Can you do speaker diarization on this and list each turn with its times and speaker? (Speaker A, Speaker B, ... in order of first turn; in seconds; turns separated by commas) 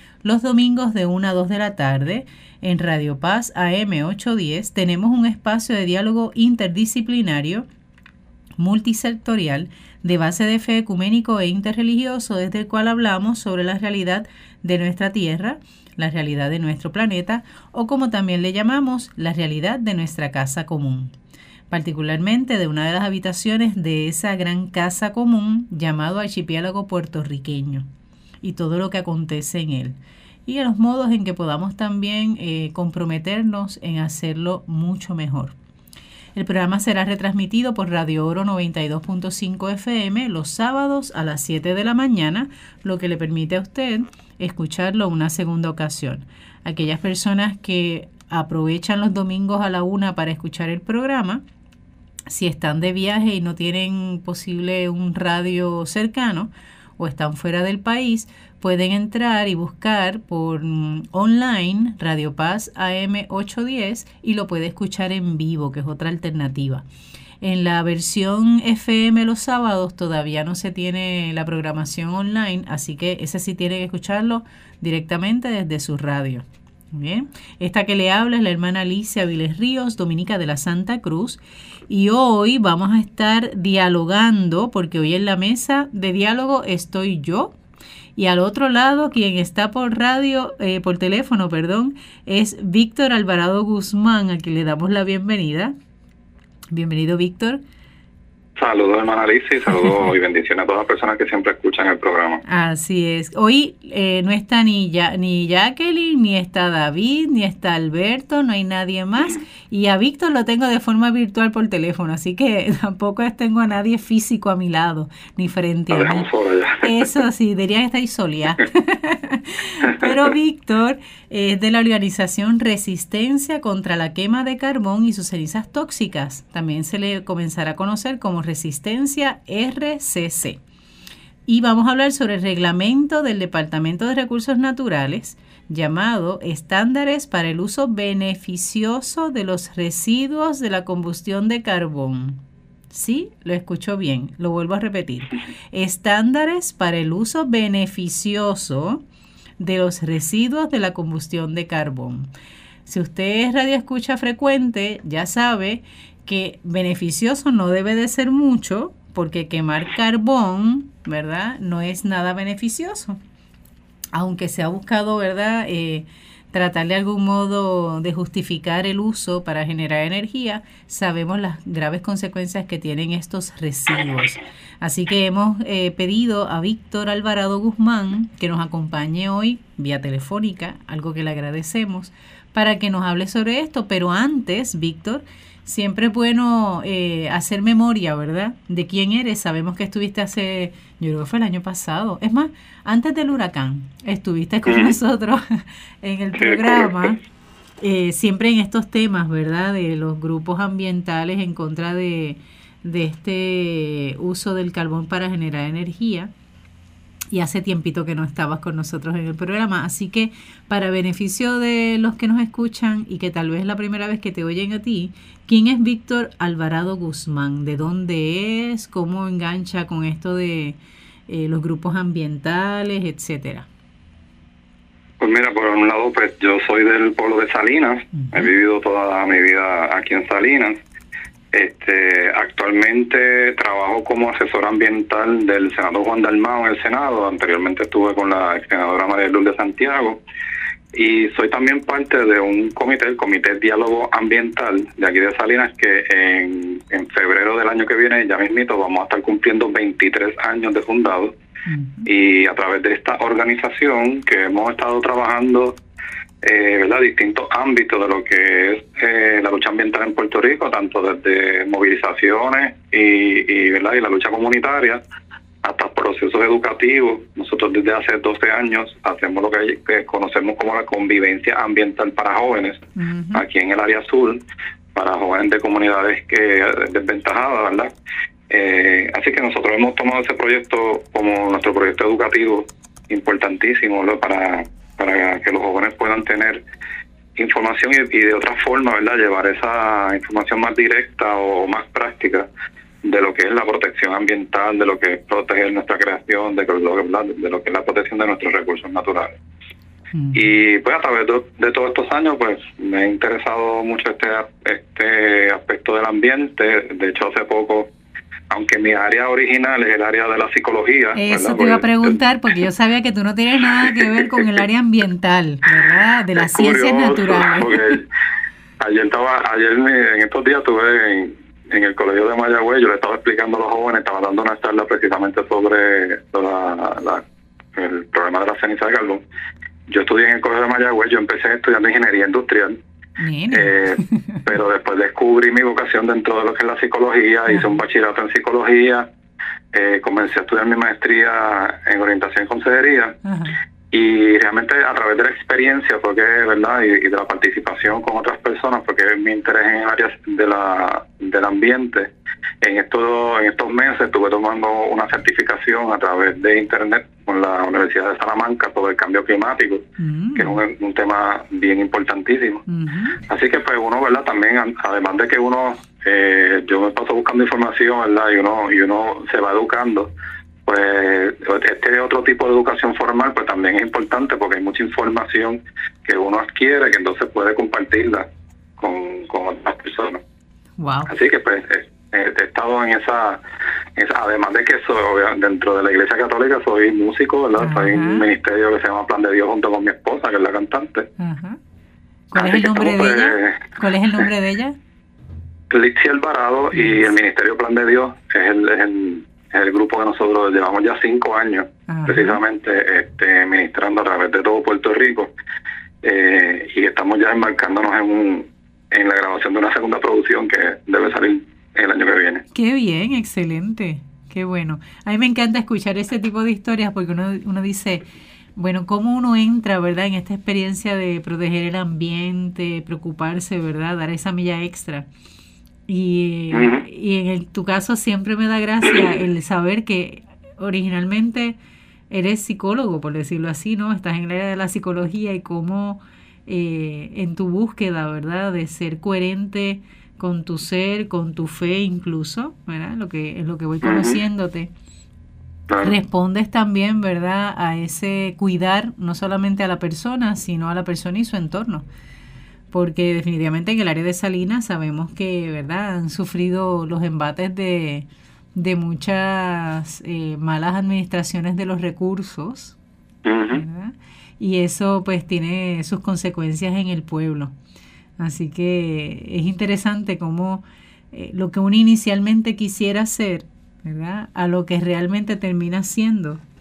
Speaker A: 0.2-7.7, Speaker A: 8.6-21.1, Speaker A: 21.7-27.9, Speaker A: 28.4-35.5, Speaker A: 36.4-51.4, Speaker A: 52.3-66.8, Speaker A: 67.4-87.6, Speaker A: 88.2-95.8, Speaker A: 96.7-97.6, Speaker B: 98.6-102.4, Speaker A: 102.5-116.3, Speaker B: 115.9-117.2, Speaker A: 116.8-130.6, Speaker B: 119.8-120.3, Speaker A: 131.5-149.0, Speaker A: 149.6-152.3, Speaker A: 152.9-163.2, Speaker A: 164.1-197.2, Speaker B: 194.7-195.0, Speaker B: 196.4-197.2, Speaker A: 197.8-206.3, Speaker A: 207.3-223.7, Speaker B: 225.2-230.8, Speaker A: 228.2-228.5, Speaker B: 231.5-240.2, Speaker B: 240.9-251.3, Speaker A: 251.7-252.1, Speaker B: 252.1-255.8, Speaker B: 256.4-265.0, Speaker B: 265.6-274.4, Speaker A: 273.0-273.4, Speaker B: 274.9-277.9, Speaker B: 278.5-286.6, Speaker B: 287.4-292.5, Speaker B: 293.0-299.3, Speaker A: 300.1-300.4, Speaker B: 300.3-307.9, Speaker B: 308.5-312.2, Speaker A: 311.1-318.0, Speaker B: 313.8-314.6, Speaker B: 316.3-318.1, Speaker B: 318.8-327.2, Speaker B: 327.8-329.2, Speaker B: 329.9-332.8, Speaker A: 333.2-334.5, Speaker B: 333.5-339.1, Speaker B: 339.7-343.2, Speaker A: 343.2-343.6, Speaker B: 343.9-352.1, Speaker B: 352.6-362.6, Speaker A: 360.0-360.6, Speaker A: 362.7-363.2, Speaker B: 363.2-370.1, Speaker B: 370.7-378.2, Speaker B: 378.8-380.2, Speaker A: 380.8-381.2, Speaker B: 381.1-383.4, Speaker B: 384.0-391.1, Speaker A: 387.6-388.3, Speaker A: 391.2-391.6, Speaker A: 392.3-394.8, Speaker B: 392.4-394.2, Speaker B: 395.7-405.3, Speaker A: 396.8-397.0, Speaker A: 401.9-402.4, Speaker B: 406.0-412.4, Speaker A: 412.5-418.0, Speaker A: 418.6-425.1, Speaker A: 425.9-431.6, Speaker B: 426.5-426.9, Speaker A: 432.1-444.7, Speaker B: 443.8-444.2, Speaker B: 445.7-445.9, Speaker A: 445.8-451.9, Speaker A: 452.7-462.8, Speaker B: 463.2-463.6, Speaker A: 463.5-467.5, Speaker A: 468.2-476.4